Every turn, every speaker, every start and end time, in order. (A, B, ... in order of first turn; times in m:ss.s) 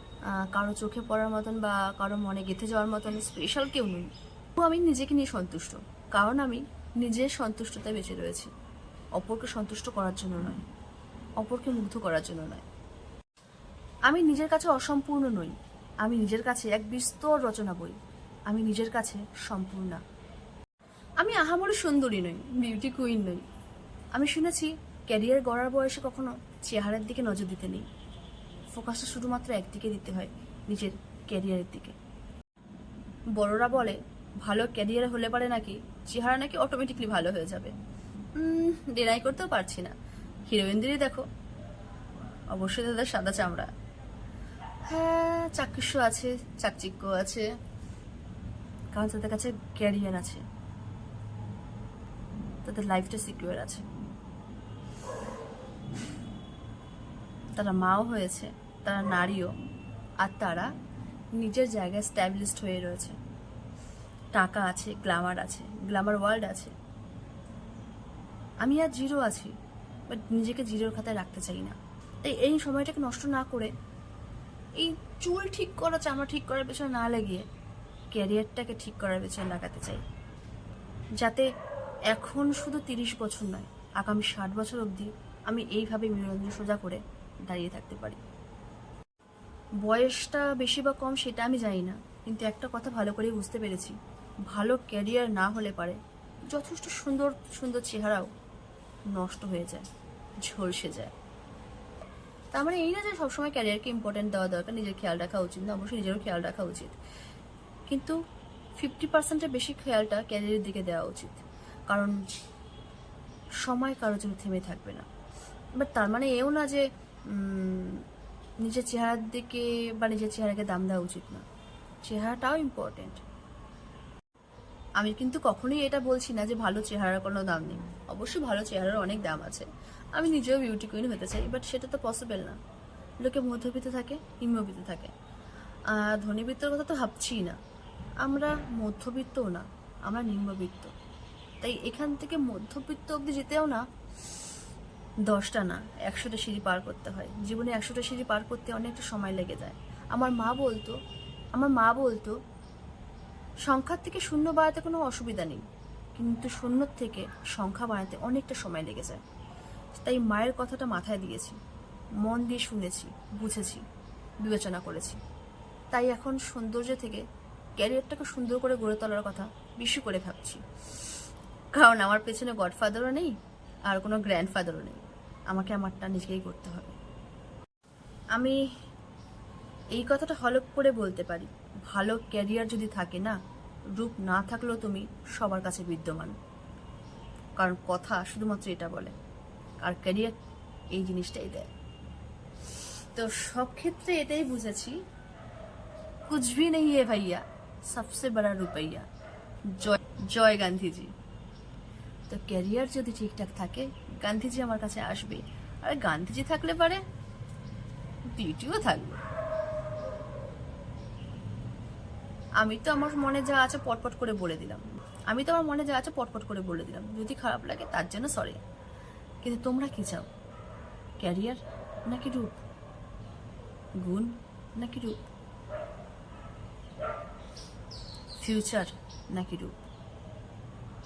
0:00.3-0:08.5 A
0:09.2-0:10.6 A
0:11.4-0:12.6 A
0:14.1-0:20.0 A
0:21.2-0:23.4 A
0:24.1-0:27.8 A
0:28.7-0:32.0 A
0:33.4-0:37.7 A
0:38.4-0:39.9 A
0:40.5-0:41.2 A
0:42.5-0:43.7 A
0:44.9-0:47.5 A
0:48.9-0:50.4 A
0:52.6-0:53.8 A
0:57.6-0:59.5 A
1:00.2-1:00.7 A
1:01.4-1:03.2 A
1:04.3-1:06.7 A
1:08.6-1:09.5 A
1:10.1-1:13.7 A
1:14.8-1:17.4 A
1:18.1-1:20.0 A
1:21.2-1:21.5 A
1:22.1-1:28.2 A
1:29.8-1:34.0 A
1:34.5-1:38.3 A
1:39.1-1:39.9 A
1:40.4-1:41.1 A
1:42.5-1:47.0 A
1:47.9-1:48.2 A
1:48.8-1:52.2 A
1:53.6-1:55.1 A
1:55.8-1:58.0 A
1:58.6-2:01.4 A
2:02.0-2:03.2 A
2:05.0-2:12.6 A
2:13.2-2:15.1 A
2:15.9-2:17.6 A
2:18.2-2:20.9 A
2:21.6-2:23.8 A
2:25.3-2:31.0 A
2:31.5-2:32.4 A
2:33.6-2:39.2 A
2:40.0-2:41.6 A
2:42.2-2:43.8 A
2:44.4-2:45.2 A
2:45.9-2:47.2 A
2:47.8-2:50.6 A
2:51.7-2:53.3 A
2:53.9-2:57.0 A
2:59.9-3:03.4 A
3:04.0-3:06.3 A
3:07.6-3:09.1 A
3:09.8-3:10.4 A
3:10.9-3:11.7 A
3:13.1-3:15.0 A
3:16.3-3:19.1 A
3:19.7-3:21.1 A
3:22.3-3:27.0 A
3:28.3-3:29.2 A
3:32.6-3:38.6 A
3:39.4-3:40.3 A
3:41.2-3:42.6 A
3:44.0-3:45.2 A
3:48.4-3:49.7 A